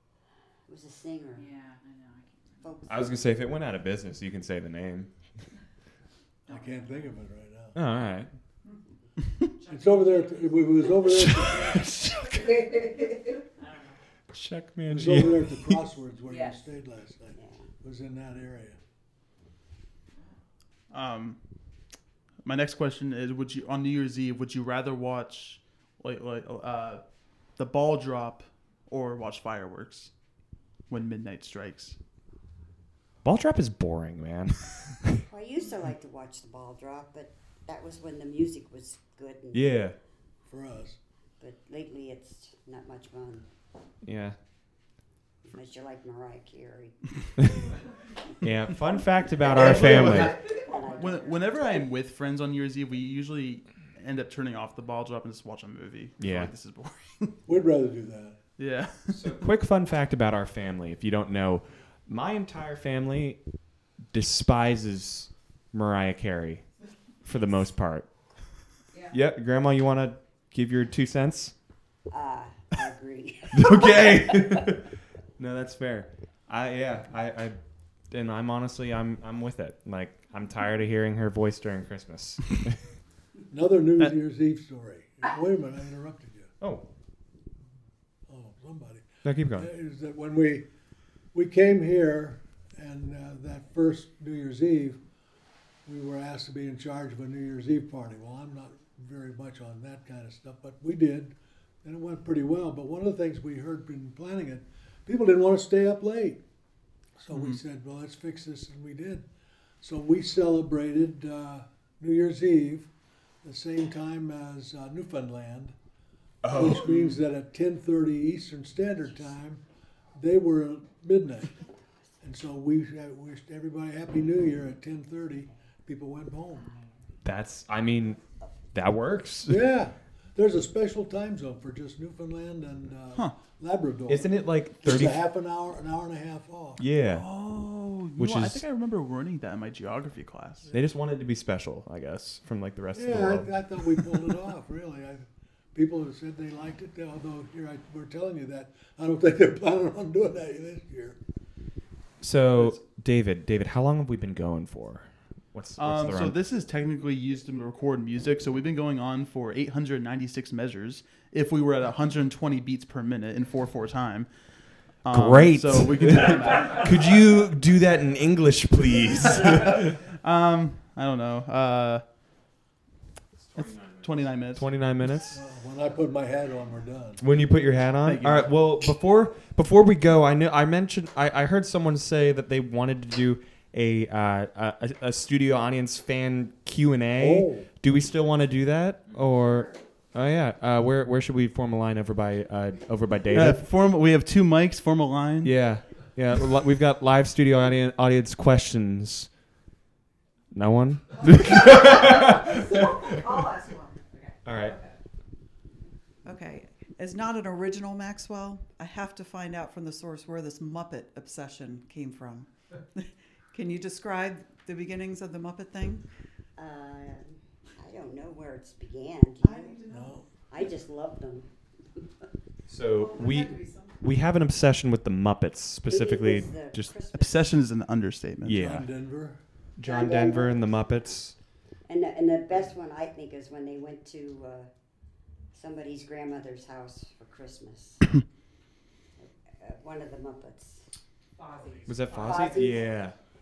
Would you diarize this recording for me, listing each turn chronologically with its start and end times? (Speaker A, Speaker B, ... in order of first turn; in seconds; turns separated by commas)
Speaker A: 0.7-1.4, Speaker B: 1.4-2.8, Speaker A: 2.6-3.2, Speaker C: 2.9-5.1, Speaker D: 6.5-7.8, Speaker B: 6.5-7.1, Speaker C: 7.8-8.3, Speaker B: 9.6-10.8, Speaker D: 9.7-11.9, Speaker C: 11.0-12.7, Speaker B: 13.6-14.0, Speaker C: 14.3-15.8, Speaker D: 14.9-18.8, Speaker B: 16.3-16.6, Speaker A: 17.4-17.7, Speaker E: 20.9-21.4, Speaker E: 22.4-27.0, Speaker E: 27.6-30.1, Speaker E: 30.9-32.0, Speaker C: 33.2-35.2, Speaker A: 35.3-39.8, Speaker C: 39.5-40.0, Speaker D: 40.5-41.0, Speaker A: 41.4-43.5, Speaker C: 44.0-44.4, Speaker A: 45.5-47.0, Speaker C: 48.4-50.4, Speaker E: 49.5-57.4, Speaker A: 49.5-51.4, Speaker C: 56.2-56.5, Speaker D: 57.5-58.4, Speaker E: 58.6-59.3, Speaker C: 59.1-63.4, Speaker C: 64.1-66.7, Speaker C: 67.2-68.1, Speaker C: 69.1-71.5, Speaker A: 72.1-74.5, Speaker C: 73.5-77.6, Speaker C: 78.1-82.8, Speaker D: 83.5-86.5, Speaker C: 86.6-86.9, Speaker D: 88.3-90.7, Speaker C: 89.2-89.7, Speaker D: 91.3-95.0, Speaker D: 95.9-106.4, Speaker D: 107.2-109.2, Speaker E: 107.3-107.6, Speaker D: 109.8-112.9, Speaker D: 113.4-115.8, Speaker C: 116.4-117.1, Speaker D: 116.5-119.6, Speaker D: 120.2-121.5, Speaker D: 122.2-126.7, Speaker C: 127.2-128.2, Speaker C: 128.7-129.6, Speaker D: 129.5-136.8, Speaker C: 134.1-135.2, Speaker C: 136.8-137.3, Speaker E: 137.1-140.7, Speaker C: 138.2-138.6, Speaker C: 140.7-144.0, Speaker D: 142.9-151.2, Speaker C: 152.2-156.4, Speaker E: 155.8-166.9, Speaker C: 165.1-169.9, Speaker E: 169.4-172.0, Speaker C: 173.4-175.4, Speaker E: 173.6-174.7, Speaker D: 175.3-177.2, Speaker C: 177.2-193.6, Speaker E: 178.0-178.5, Speaker D: 187.2-187.7, Speaker E: 193.3-195.5, Speaker C: 195.4-199.3, Speaker C: 200.5-203.4, Speaker F: 201.3-204.0, Speaker C: 204.4-204.8, Speaker G: 206.2-216.1, Speaker A: 216.6-219.8, Speaker G: 219.4-220.1, Speaker F: 219.8-220.2, Speaker D: 219.9-220.2, Speaker A: 220.5-221.5, Speaker C: 222.7-226.9, Speaker F: 223.0-224.0, Speaker A: 225.9-227.5, Speaker E: 227.1-228.7, Speaker C: 228.4-228.9, Speaker D: 228.5-229.4, Speaker C: 229.8-231.3, Speaker A: 229.8-230.9, Speaker A: 231.9-234.7, Speaker A: 235.5-238.1, Speaker A: 239.2-240.9, Speaker F: 241.4-241.9, Speaker B: 241.4-242.6, Speaker C: 241.9-243.2, Speaker A: 242.2-242.9